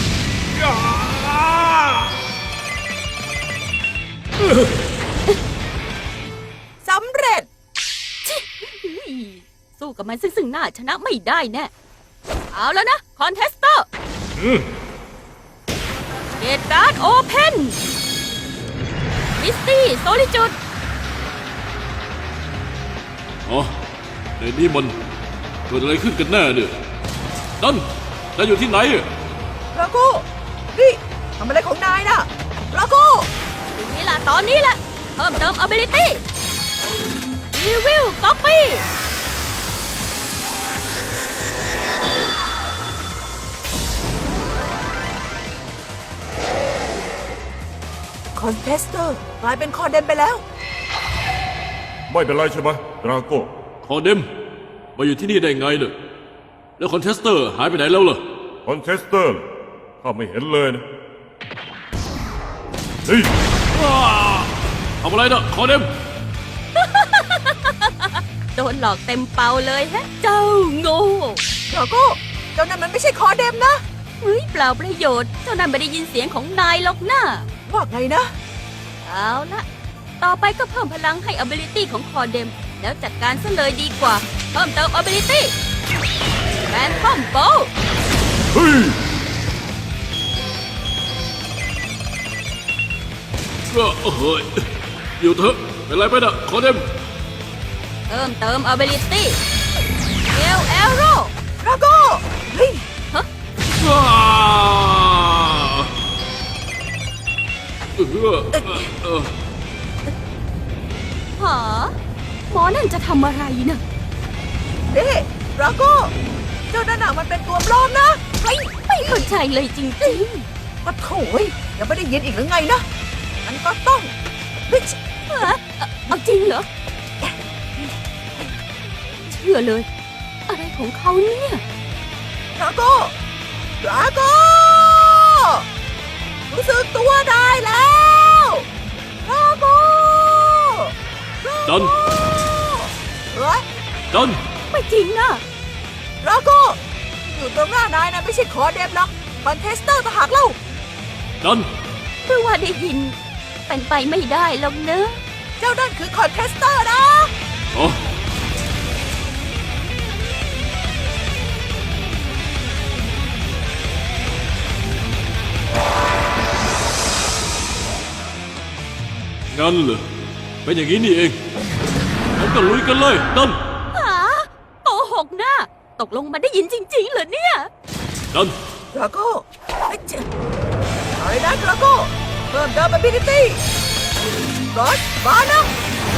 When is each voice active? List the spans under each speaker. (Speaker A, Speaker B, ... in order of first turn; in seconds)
Speaker A: 0.5-2.0, 4.4-4.7, 14.4-14.7
Speaker B: 6.8-7.5, 29.7-33.3, 48.3-50.4, 71.7-73.8, 77.7-78.3, 101.6-102.8, 114.9-116.1, 116.7-119.3, 120.8-122.8, 123.4-124.1, 124.7-125.5, 127.2-127.8, 132.6-133.1, 133.8-135.6, 136.5-138.7, 139.2-143.6, 146.2-150.6, 155.6-157.3, 178.9-180.3, 181.2-183.6, 184.7-185.7
Speaker C: 8.2-11.7, 12.5-13.8, 16.4-17.8, 19.4-20.5, 33.8-36.2, 37.5-38.8, 66.8-71.4, 74.2-77.5, 79.0-79.6, 80.2-85.5, 86.7-87.7, 98.1-99.4, 100.3-101.3, 111.4-111.9, 112.5-113.8, 119.0-120.5, 125.3-126.6, 129.3-129.9, 130.5-131.6, 144.7-145.4, 152.2-153.2, 153.7-155.2, 173.9-177.7
Speaker D: 23.4-23.7, 24.4-24.9, 25.7-26.8, 28.4-29.1, 53.8-54.3, 55.0-55.9, 56.8-58.2, 63.7-65.9, 88.5-88.9, 93.7-94.7, 95.2-96.8, 103.7-105.9, 108.0-109.3, 141.7-141.9, 144.1-144.4, 151.4-151.7, 169.5-170.0, 170.6-171.4, 172.4-173.6
Speaker E: 52.1-53.5, 58.6-59.4, 60.0-60.8, 63.0-63.3